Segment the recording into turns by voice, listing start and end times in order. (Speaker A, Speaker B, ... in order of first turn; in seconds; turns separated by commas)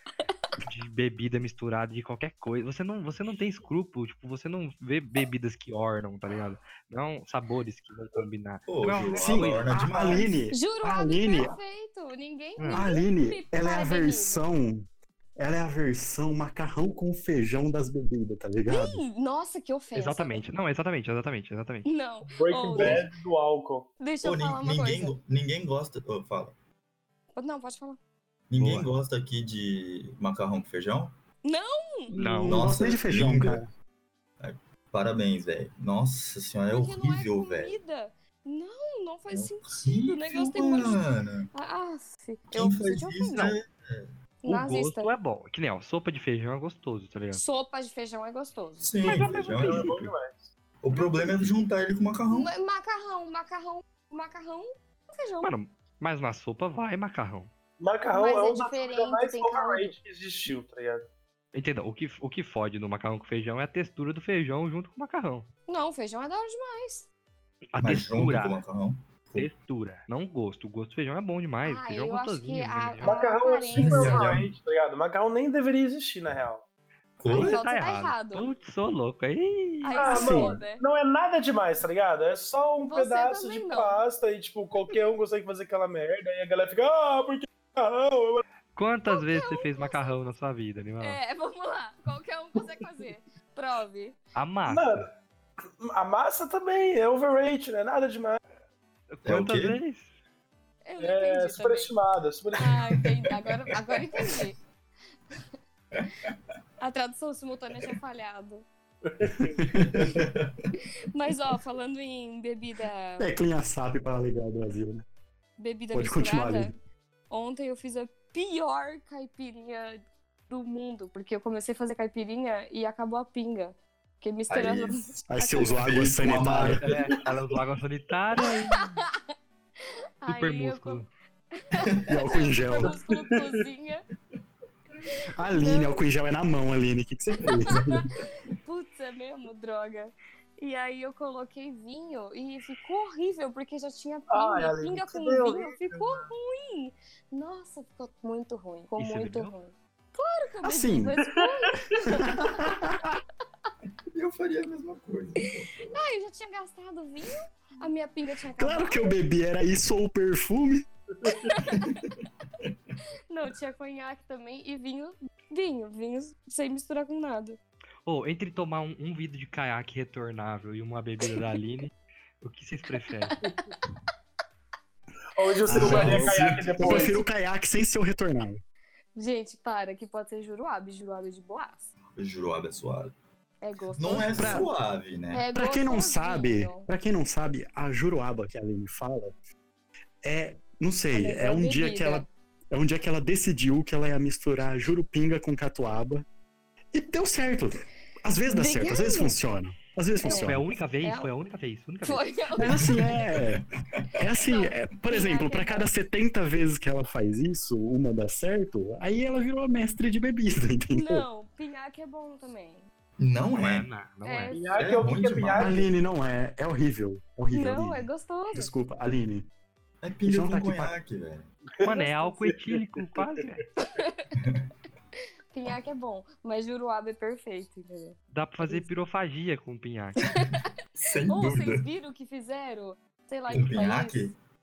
Speaker A: 0.6-9.9, Speaker B: 8.7-10.3, Speaker C: 9.2-11.6, Speaker D: 10.5-14.4, Speaker A: 12.6-12.9, Speaker C: 12.7-19.0, Speaker D: 18.7-20.4, Speaker A: 19.9-21.9, Speaker D: 21.9-23.1, Speaker E: 22.2-23.9, Speaker B: 22.7-23.0, Speaker D: 24.0-25.2, Speaker B: 24.2-26.6, Speaker D: 27.4-28.0, Speaker B: 28.5-31.1, Speaker A: 28.6-28.9, Speaker D: 31.4-32.1, Speaker C: 32.1-33.7, Speaker A: 32.1-32.7, Speaker B: 32.5-33.6, Speaker B: 34.4-37.8, Speaker D: 36.7-43.6, Speaker B: 39.3-41.5, Speaker B: 42.5-44.1, Speaker D: 44.4-45.1, Speaker A: 44.5-47.4, Speaker D: 47.3-49.8, Speaker B: 48.8-50.0, Speaker E: 49.0-50.5, Speaker B: 50.8-52.5, Speaker D: 52.3-55.5, Speaker A: 55.4-57.5, Speaker E: 57.8-61.1, Speaker D: 58.1-60.0, Speaker A: 61.5-65.5, Speaker D: 65.7-67.1, Speaker A: 67.7-68.6, Speaker B: 67.8-69.5, Speaker A: 69.4-73.2, Speaker D: 71.6-74.4, Speaker E: 73.0-76.7, Speaker B: 73.8-74.5, Speaker B: 77.2-77.6, Speaker D: 77.3-78.5, Speaker A: 77.3-80.1, Speaker D: 79.8-80.8, Speaker E: 80.0-88.4, Speaker C: 80.1-80.6, Speaker D: 82.9-84.0, Speaker A: 88.8-91.2, Speaker D: 89.1-90.1, Speaker D: 91.0-94.2, Speaker A: 94.3-95.1, Speaker E: 94.7-95.1, Speaker E: 95.8-98.4, Speaker A: 99.1-100.1, Speaker B: 99.2-99.8, Speaker D: 100.8-101.9, Speaker E: 101.0-102.8, Speaker D: 102.5-104.6, Speaker D: 106.8-108.7, Speaker E: 109.0-110.1, Speaker C: 109.4-109.9, Speaker B: 109.9-110.7, Speaker D: 111.1-113.3, Speaker C: 113.2-115.0, Speaker D: 115.6-116.7, Speaker C: 115.9-116.7, Speaker D: 117.3-125.8, Speaker B: 124.5-127.0, Speaker C: 125.3-126.8, Speaker A: 126.5-129.0, Speaker D: 128.4-129.2, Speaker D: 130.2-131.0, Speaker A: 130.3-131.1, Speaker D: 131.6-134.1, Speaker C: 132.1-132.9, Speaker E: 132.8-133.6, Speaker C: 135.3-138.1, Speaker D: 135.5-136.0, Speaker D: 137.7-138.0, Speaker D: 138.6-152.7, Speaker E: 144.3-146.1, Speaker A: 149.0-149.5, Speaker C: 150.6-151.2, Speaker E: 151.2-152.0, Speaker C: 152.0-153.2, Speaker B: 154.1-156.0, Speaker D: 155.9-159.2, Speaker C: 158.6-160.9, Speaker D: 161.3-162.0, Speaker B: 161.7-162.1, Speaker D: 163.3-167.6, Speaker A: 168.1-173.4, Speaker E: 173.4-173.7, Speaker E: 175.3-177.2, Speaker B: 175.7-177.1, Speaker C: 175.7-178.6, Speaker D: 179.2-181.9, Speaker B: 182.2-183.2, Speaker D: 183.6-184.7, Speaker B: 183.9-185.5, Speaker C: 184.3-184.7, Speaker D: 185.3-186.9, Speaker C: 185.5-189.3, Speaker C: 190.2-196.2, Speaker D: 191.1-192.3, Speaker C: 196.9-200.7, Speaker D: 198.5-199.4, Speaker D: 200.2-201.3, Speaker A: 200.3-202.3, Speaker D: 202.0-202.9, Speaker C: 202.6-203.6, Speaker B: 202.8-204.1, Speaker C: 204.2-211.3, Speaker D: 204.4-205.9, Speaker D: 210.9-212.9, Speaker B: 213.2-213.9, Speaker A: 213.6-214.6, Speaker D: 214.2-214.9, Speaker E: 214.5-215.9, Speaker B: 214.7-215.8, Speaker C: 215.6-219.5, Speaker D: 217.5-218.7, Speaker B: 220.0-221.5, Speaker C: 220.2-220.9, Speaker E: 221.7-222.8, Speaker A: 221.8-223.7, Speaker D: 223.9-224.3, Speaker B: 224.4-224.7, Speaker D: 225.5-228.2, Speaker A: 228.3-230.3, Speaker D: 230.3-230.7, Speaker B: 231.0-231.9, Speaker D: 231.3-234.2, Speaker B: 233.5-234.3